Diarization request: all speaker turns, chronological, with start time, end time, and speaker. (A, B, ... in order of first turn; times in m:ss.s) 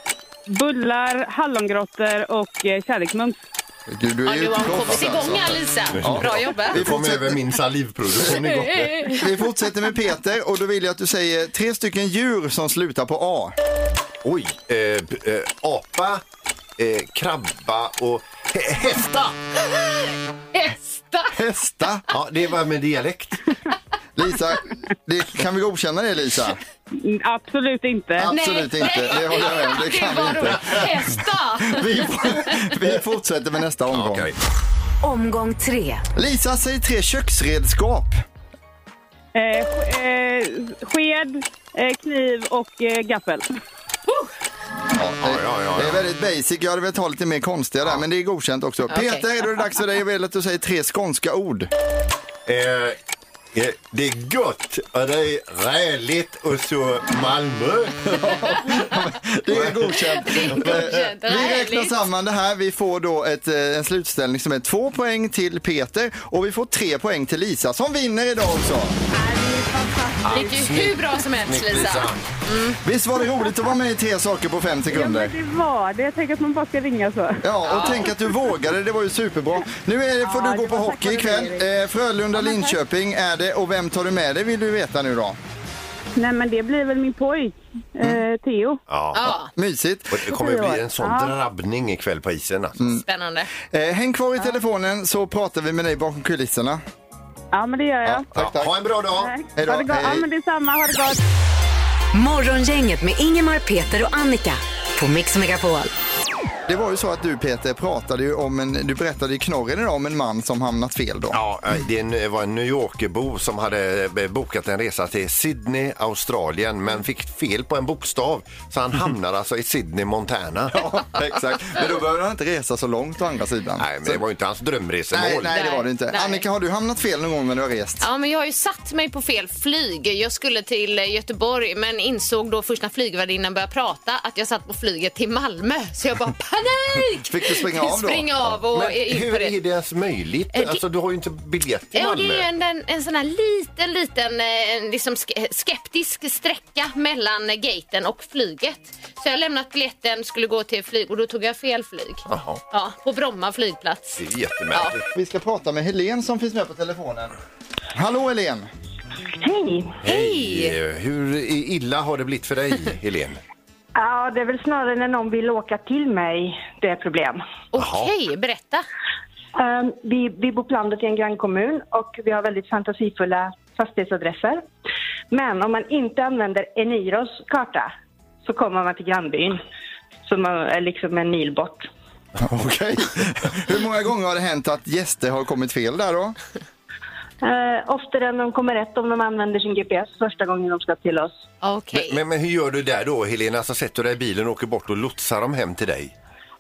0:00.5-0:03.4 A
0:03.9-0:07.4 B
0:04.3-0:06.8 C
0:05.9-0:09.2 D
0:08.8-0:09.2 C
0:09.1-0:13.6 B
0:14.2-0:16.2 D
0:16.8-0:19.4 D
0:19.8-0:21.3 C
0:21.3-0:22.0 B
0:22.1-0:23.4 D
0:24.2-0:26.6 B
0:27.0-0:28.3 A
0:28.2-0:30.9 B
0:28.3-0:32.7 C
0:31.6-0:34.3 B
0:33.9-0:34.4 D
0:35.0-0:36.0 E
0:36.2-0:38.2 B
0:39.3-0:43.5 A
0:45.0-0:51.7 B
0:45.2-0:46.0 D
0:48.9-0:49.3 C
0:52.5-0:53.0 D
0:53.5-0:58.3 D
0:58.1-1:09.0 B
0:59.5-1:00.0 D
0:59.9-1:02.1 C
1:00.5-1:00.9 D
1:09.2-1:10.2 A
1:10.2-1:12.2 D
1:10.3-1:12.8 C
1:12.8-1:15.3 B
1:14.9-1:17.4 A
1:17.4-1:25.4 B
1:17.6-1:18.1 C
1:20.2-1:21.7 A
1:22.4-1:22.8 A
1:26.2-1:28.8 A
1:28.9-1:29.4 D
1:29.1-1:29.5 C
1:29.5-1:30.2 B
1:30.1-1:32.8 D
1:30.3-1:31.4 A
1:32.9-1:33.5 C
1:33.7-1:36.8 B
1:37.5-1:38.3 A
1:38.0-1:38.7 B
1:38.4-1:39.3 D
1:39.2-1:41.2 A
1:39.6-1:40.3 B
1:42.1-1:45.9 E
1:46.7-1:51.4 B
1:51.3-2:00.8 D
2:00.7-2:04.2 B
2:03.8-2:05.6 D
2:05.1-2:08.0 B
2:05.5-2:06.4 C
2:08.0-2:19.5 C
2:17.2-2:18.5 B
2:18.7-2:22.5 D
2:20.5-2:20.8 C
2:22.0-2:34.2 C
2:32.3-2:32.6 D
2:34.2-2:35.1 D
2:35.1-2:37.4 B
2:37.9-2:38.7 B
2:39.4-2:40.0 F
2:40.0-2:43.4 D
2:40.0-2:40.8 C
2:44.0-2:47.4 F
2:47.7-2:48.8 C
2:47.8-2:48.1 D
2:49.6-2:54.6 F
2:55.3-2:57.9 F
2:58.4-2:59.6 F
3:00.3-3:01.9 F
3:02.4-3:06.4 B
3:07.4-3:11.3 F
3:11.6-3:12.2 C
3:11.9-3:16.1 D